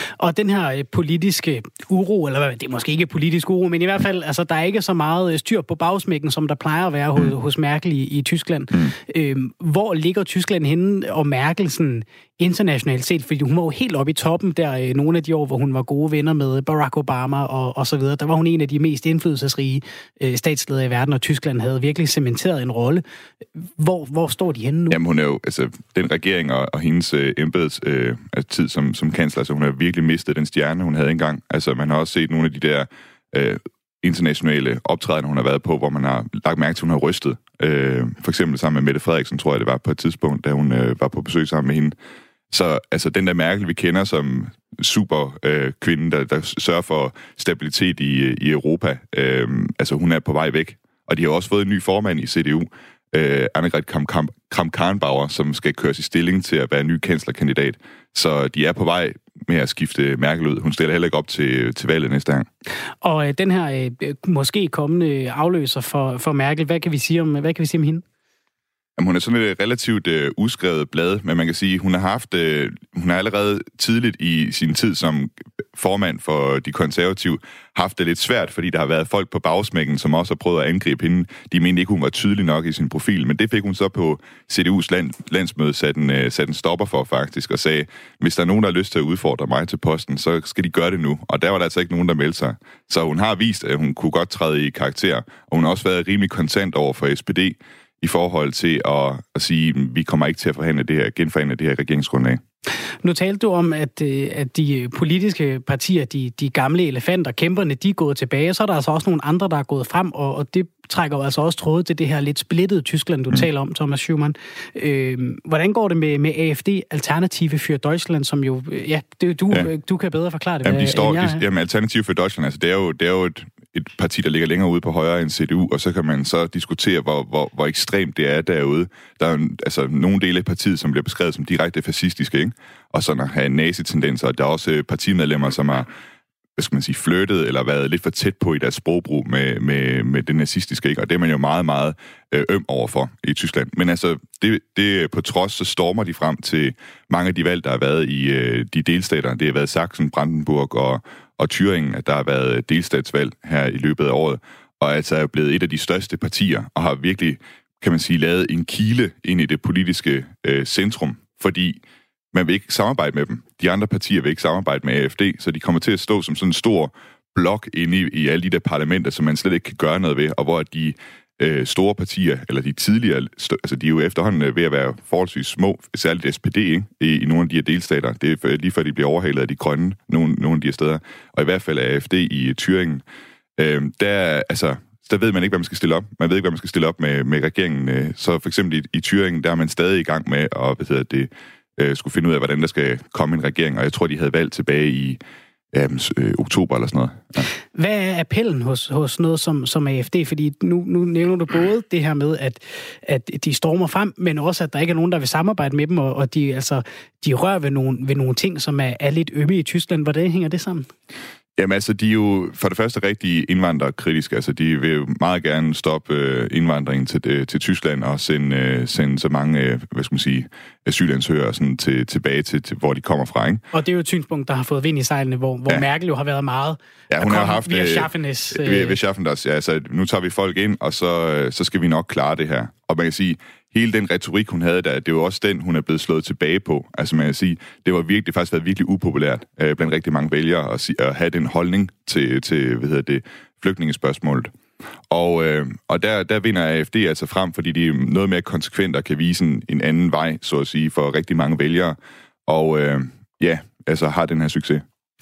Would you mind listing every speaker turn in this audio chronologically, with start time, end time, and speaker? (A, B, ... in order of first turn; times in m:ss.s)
0:00.2-0:23.0 A
0:23.8-0:25.0 A
0:24.9-0:42.0 B
0:42.5-1:02.5 B
1:03.0-1:08.0 A
1:09.0-1:42.4 B
1:43.0-2:01.4 A
2:00.6-2:15.9 B
2:16.6-2:41.8 B
2:42.3-3:03.0 B
3:03.6-3:15.2 B
3:15.7-3:17.5 B
3:17.8-3:30.9 A
3:31.6-3:43.6 B
3:43.7-3:49.0 A
3:47.1-4:04.5 B
4:05.1-4:14.8 B